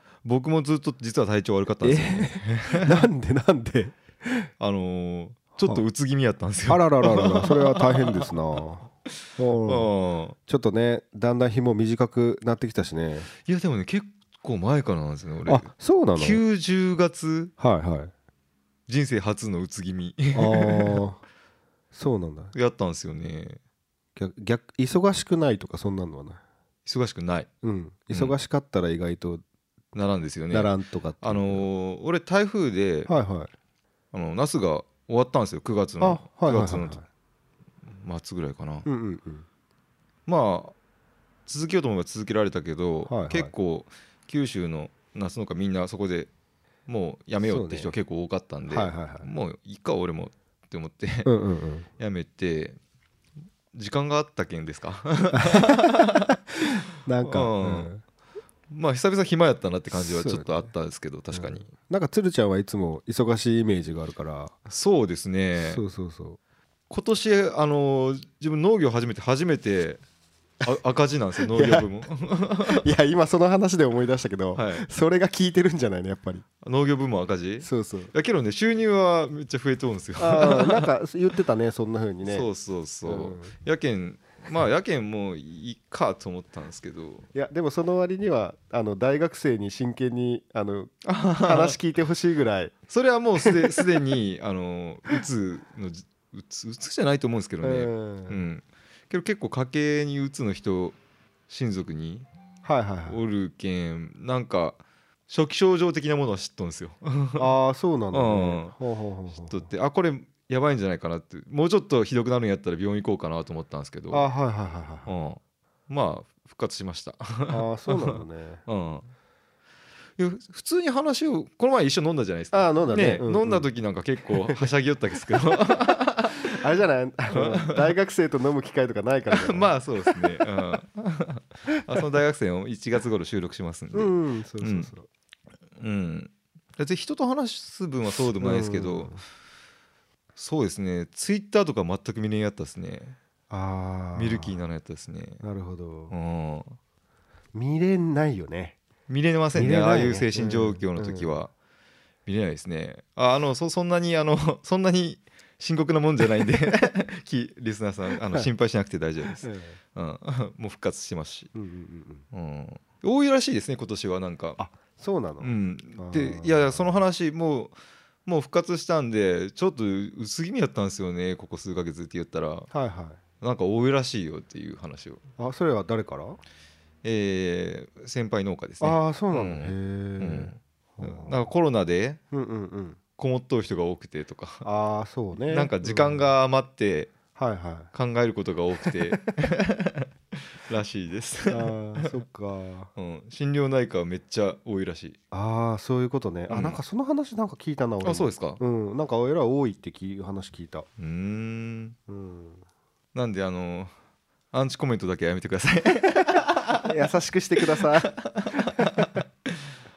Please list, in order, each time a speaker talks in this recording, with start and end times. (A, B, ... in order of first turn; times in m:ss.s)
0:00.2-0:03.0 A
0:01.8-0:04.5 B
0:04.6-0:08.3 A
0:06.7-0:09.9 B
0:09.1-0:10.4 A
0:10.5-0:13.3 B
0:13.4-0:17.5 A
0:15.4-0:16.4 B
0:17.6-0:18.1 B
0:18.9-0:21.0 A
0:20.3-0:21.2 B
0:21.9-0:22.5 B
0:22.5-0:23.6 A
0:24.2-0:26.4 B
0:26.8-0:27.5 A
0:27.6-0:29.4 B
0:29.9-0:33.1 A
0:30.5-0:31.7 B
0:33.1-0:33.5 B
0:34.1-0:37.0 A
0:36.0-0:37.0 B
0:37.9-0:38.8 A
0:38.8-0:39.4 B
0:40.3-0:40.7 A
0:41.5-0:46.3 A
0:43.1-0:43.5 B
0:46.9-0:51.3 A
0:47.4-0:47.9 B
0:48.7-0:49.3 B
0:51.3-0:51.9 B
0:52.0-0:52.8 A
0:53.7-0:57.9 A
0:55.4-0:55.8 B
0:56.7-0:58.0 B
0:58.7-1:01.7 A
0:59.9-1:00.7 B
1:01.3-1:04.5 B
1:04.7-1:05.8 A
1:05.6-1:06.4 B
1:06.9-1:10.0 A
1:10.6-1:12.9 A
1:11.5-1:11.9 B
1:12.7-1:16.5 B
1:14.5-1:14.9 A
1:16.6-1:20.9 A
1:17.6-1:18.1 B
1:20.2-1:22.5 B
1:22.2-1:27.2 A
1:23.0-1:23.5 B
1:27.3-1:32.7 B
1:31.0-1:31.8 A
1:32.9-1:41.0 A
1:33.4-1:33.8 B
1:37.6-1:38.4 B
1:41.5-1:42.3 A
1:42.6-1:43.2 B
1:43.1-1:47.5 A
1:47.4-1:49.7 B
1:48.1-1:48.8 A
1:49.3-1:54.3 A
1:54.1-1:55.1 B
1:55.1-1:59.1 A
1:57.5-1:58.6 B
2:00.2-2:06.6 A
2:02.5-2:03.7 B
2:04.3-2:04.7 B
2:06.5-2:10.4 B
2:07.3-2:07.9 A
2:09.3-2:14.9 A
2:13.9-2:15.1 B
2:15.8-2:19.2 A
2:18.4-2:19.2 B
2:20.4-2:23.2 A
2:23.5-2:24.6 B
2:24.2-2:25.4 A
2:25.4-2:26.1 B
2:26.1-2:26.8 A
2:27.5-2:28.8 B
2:29.1-2:31.5 A
2:29.5-2:31.3 B
2:32.2-2:41.5 A
2:39.4-2:39.8 B
2:41.5-2:42.2 B
2:42.3-2:44.6 A
2:44.6-2:47.0 B
2:45.4-2:52.7 A
2:52.7-2:53.2 B
2:53.4-2:55.2 A
2:55.4-2:56.4 B
2:57.0-3:02.2 A
2:58.8-3:01.5 B
3:02.3-3:03.0 B
3:03.2-3:04.7 A
3:04.6-3:06.3 B
3:05.4-3:07.1 A
3:07.3-3:07.9 B
3:07.9-3:12.2 A
3:08.8-3:09.1 B
3:11.5-3:12.9 B
3:12.9-3:15.2 A
3:15.3-3:20.9 B
3:16.5-3:16.8 A
3:18.0-3:18.6 A
3:21.0-3:22.0 A
3:22.1-3:22.6 B
3:23.1-3:23.9 A
3:24.5-3:26.9 A
3:26.8-3:29.2 B
3:27.7-3:29.7 A